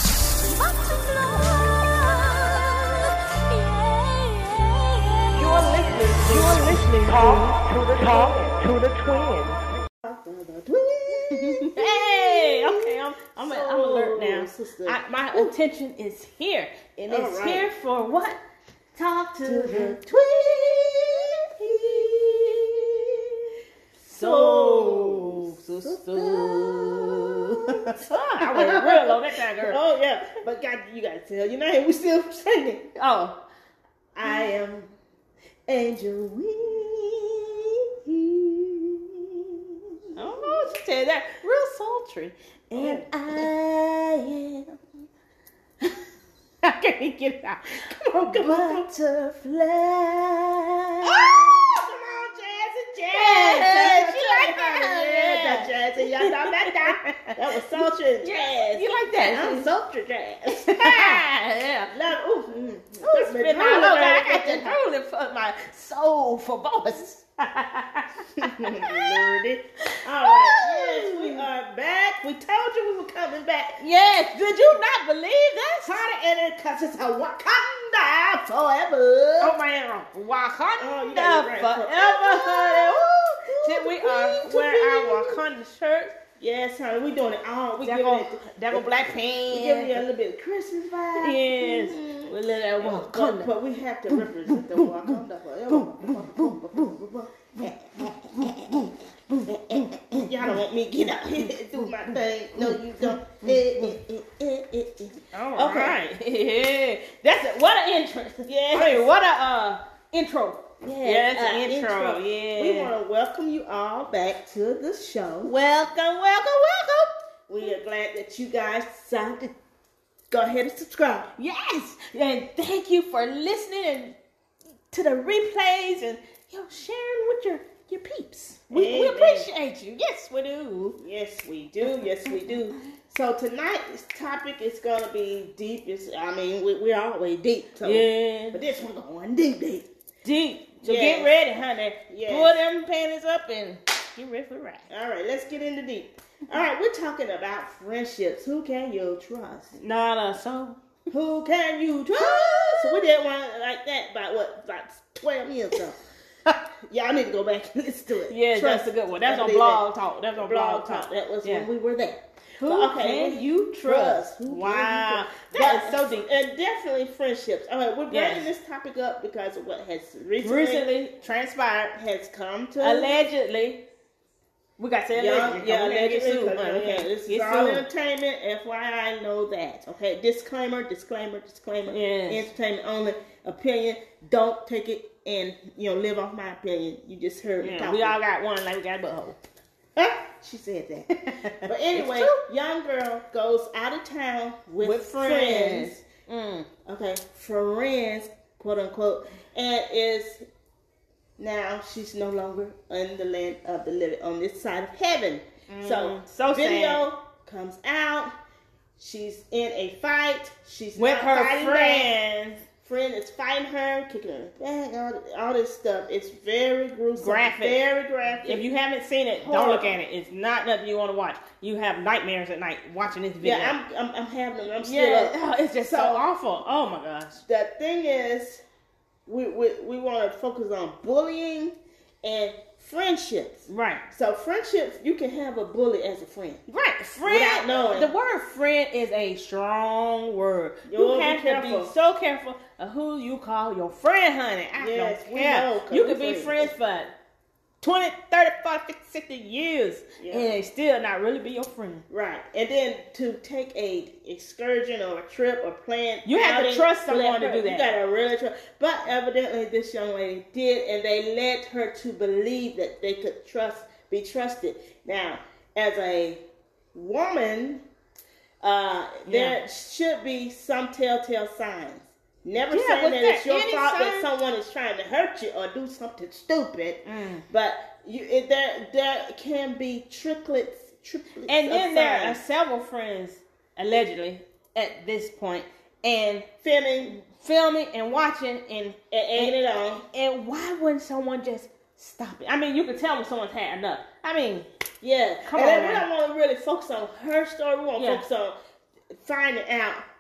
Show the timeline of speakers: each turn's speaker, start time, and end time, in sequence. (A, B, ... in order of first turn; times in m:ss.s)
0:00.4-0:05.5 A
0:05.3-0:06.9 B
0:05.4-0:09.6 C
0:06.2-0:07.4 A
0:10.0-0:15.5 B
0:11.3-0:18.4 A
0:17.1-0:17.7 B
0:19.0-0:23.4 A
0:19.4-0:20.0 B
0:21.6-0:22.4 B
0:24.1-0:29.8 A
0:24.1-0:32.9 B
0:33.0-0:33.4 A
0:34.2-0:34.9 B
0:35.7-0:40.6 B
0:40.2-0:44.7 A
0:42.7-0:43.5 B
0:46.6-0:51.8 A
0:48.0-0:49.4 B
0:51.0-1:01.2 B
0:53.1-0:59.7 A
1:00.5-1:01.9 A
1:01.9-1:04.8 B
1:03.0-1:09.3 A
1:08.4-1:13.8 B
1:10.0-1:11.5 A
1:13.8-1:16.0 A
1:15.8-1:19.6 B
1:19.4-1:26.1 A
1:20.8-1:25.4 B
1:26.4-1:29.0 B
1:27.8-1:30.0 A
1:29.5-1:38.8 B
1:31.2-1:33.5 A
1:34.1-1:37.0 A
1:37.6-1:40.6 A
1:39.5-1:46.0 B
1:41.5-1:44.0 A
1:45.3-1:52.9 A
1:48.5-1:49.1 B
1:50.8-1:55.5 B
1:55.4-1:57.1 A
1:57.5-1:59.5 B
2:00.3-2:01.3 B
2:01.4-2:04.2 A
2:04.9-2:11.0 A
2:08.7-2:09.5 B
2:11.0-2:19.9 B
2:17.8-2:18.6 A
2:20.2-2:24.9 A
2:20.8-2:21.4 B
2:22.1-2:22.6 B
2:24.9-2:29.8 B
2:29.8-2:30.8 A
2:31.1-2:36.0 B
2:32.1-2:33.1 A
2:36.9-2:39.8 B
2:38.3-2:41.7 A
2:40.4-2:50.9 B
2:42.6-2:46.3 A
2:48.1-2:48.5 A
2:50.4-2:52.0 A
2:52.0-2:53.2 B
2:52.8-2:53.8 A
2:54.8-2:57.8 A
2:55.2-3:08.2 B
3:01.9-3:02.5 A
3:07.6-3:09.4 A
3:10.0-3:16.0 B
3:11.2-3:12.4 A
3:14.8-3:16.7 A
3:16.8-3:20.4 B
3:21.4-3:28.3 B
3:25.7-3:27.1 A
3:29.0-3:32.1 B
3:31.0-3:32.6 A
3:32.8-3:38.6 B
3:37.2-3:37.8 A
3:38.4-3:43.8 A
3:39.4-3:40.0 B
3:43.4-3:46.2 B
3:44.8-3:47.4 A
3:47.5-3:48.6 B
3:49.3-3:56.6 B
3:53.7-3:54.0 A
3:56.7-4:07.1 A
3:57.2-3:58.1 B
4:00.9-4:01.9 B
4:04.8-4:06.7 B
4:07.8-4:12.0 A
4:10.2-4:10.5 B
4:12.1-4:26.4 B
4:16.2-4:17.9 A
4:26.9-4:27.8 B
4:28.6-4:42.4 B
4:29.3-4:29.6 A
4:32.7-4:34.3 A
4:37.0-4:37.5 A
4:41.5-4:46.5 A
4:46.6-4:47.1 B
4:47.0-4:49.6 A
4:49.1-4:50.0 B
4:50.1-4:54.7 A
4:55.0-4:58.6 B
4:55.4-4:56.1 A
4:58.0-4:58.2 A
4:59.1-5:00.0 B